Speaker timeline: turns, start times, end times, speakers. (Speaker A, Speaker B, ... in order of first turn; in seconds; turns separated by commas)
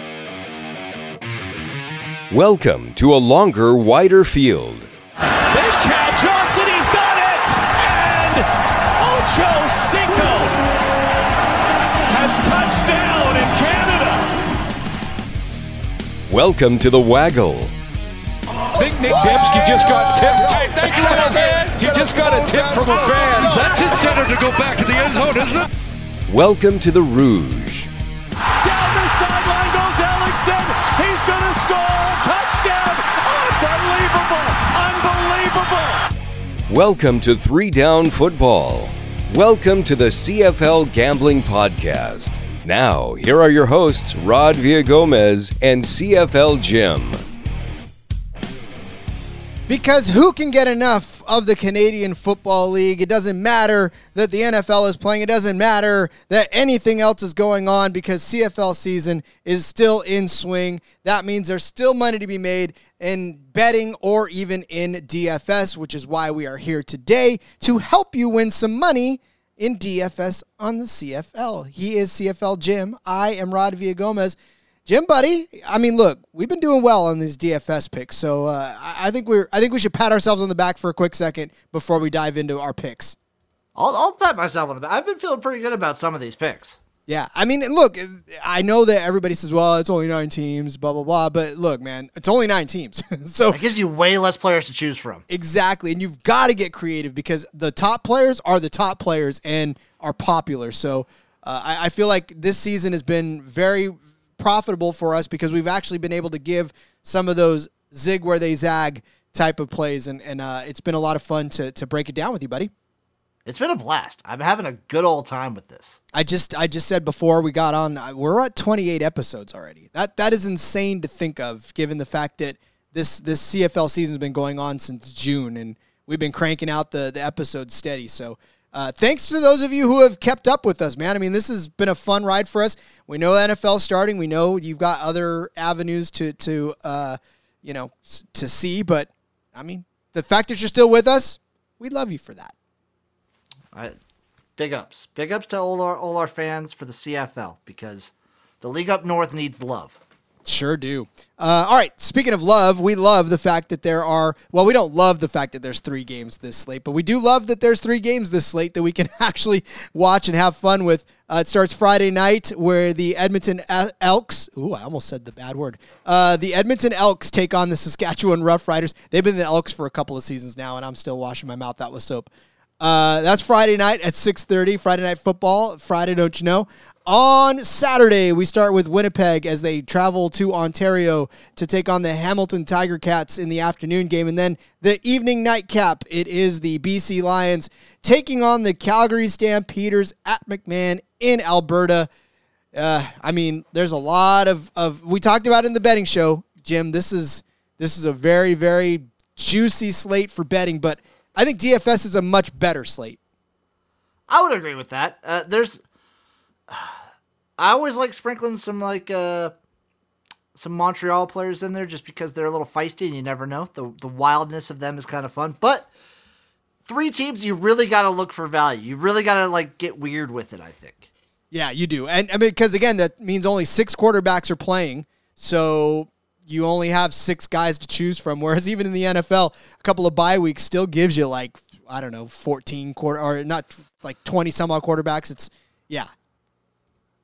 Speaker A: 2.3-4.9, Speaker B: 5.5-10.6, Speaker B: 12.1-14.3, Speaker A: 16.3-17.7, Speaker C: 18.7-25.7, Speaker B: 18.8-23.8, Speaker A: 26.3-27.9, Speaker B: 28.5-36.0, Speaker A: 36.7-47.2, Speaker D: 49.7-83.2, Speaker E: 83.8-86.8, Speaker D: 87.1-93.6, Speaker E: 93.5-95.2, Speaker D: 95.3-112.7, Speaker E: 113.4-116.0, Speaker D: 116.1-142.5, Speaker E: 144.6-150.0, Speaker D: 150.4-192.1, Speaker D: 192.7-203.2, Speaker E: 204.3-205.8, Speaker E: 206.7-206.9, Speaker E: 207.6-209.5, Speaker E: 210.5-215.9, Speaker E: 216.9-221.1, Speaker D: 221.5-236.1